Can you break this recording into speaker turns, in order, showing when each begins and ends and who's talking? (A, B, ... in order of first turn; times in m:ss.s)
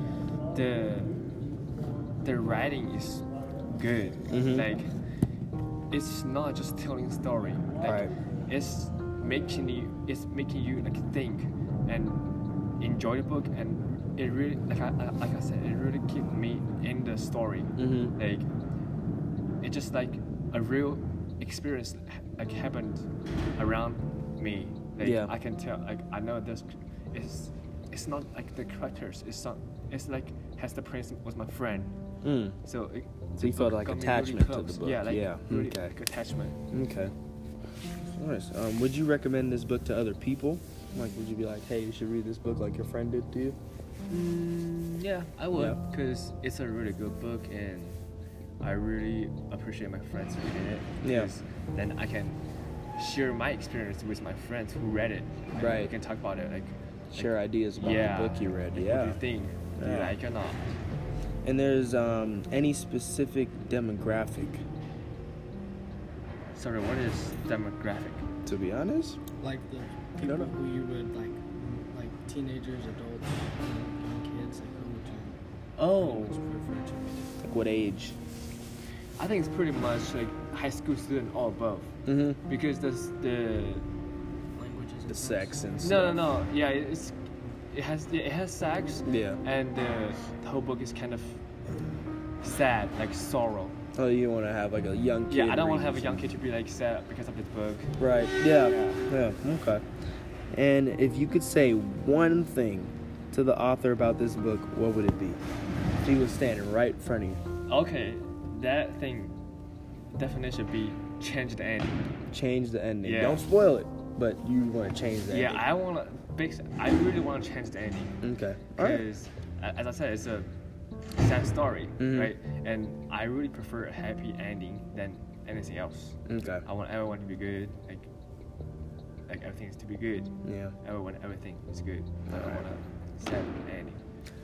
0:00.5-0:01.2 A
0:02.2-0:04.9 A
0:04.3-0:04.7 B
0:05.9-0:12.3 A
0:07.8-0:08.1 B
0:12.8-0:18.5 A
0:17.8-0:18.1 B
0:19.6-0:31.9 A
0:25.0-0:25.3 B
0:32.2-0:32.6 B
0:32.6-0:36.6 A
0:33.4-0:35.9 B
0:36.7-0:37.1 B
0:38.1-0:43.6 B
0:44.1-0:48.0 A
0:45.5-0:45.8 B
0:48.6-0:52.4 A
0:51.0-0:51.3 B
0:53.0-1:00.6 A
0:55.6-0:55.9 B
0:57.1-0:59.2 B
0:59.8-1:00.2 B
1:01.4-1:04.6 B
1:06.5-1:08.3 A
1:08.4-1:09.2 B
1:09.4-1:15.4 C
1:10.2-1:10.5 B
1:15.8-1:16.4 A
1:15.9-1:17.4 C
1:17.4-1:18.2 B
1:19.2-1:23.9 A
1:22.0-1:22.4 B
1:24.5-1:25.6 C
1:25.1-1:26.3 B
1:25.8-1:31.4 A
1:29.0-1:29.4 B
1:32.4-1:33.8 A
1:33.9-1:36.2 B
1:35.3-1:37.9 A
1:38.0-1:39.8 B
1:38.6-1:39.0 A
1:40.5-1:45.4 B
1:46.0-1:47.4 B
1:47.7-1:49.3 A
1:50.1-1:52.1 A
1:52.3-1:55.6 B
1:53.0-1:53.4 A
1:55.3-1:58.2 A
1:58.2-1:59.0 B
1:58.7-2:00.5 A
2:01.0-2:08.1 A
2:02.0-2:02.3 B
2:06.2-2:06.6 B
2:09.3-2:14.0 A
2:10.4-2:10.7 B
2:12.3-2:12.7 B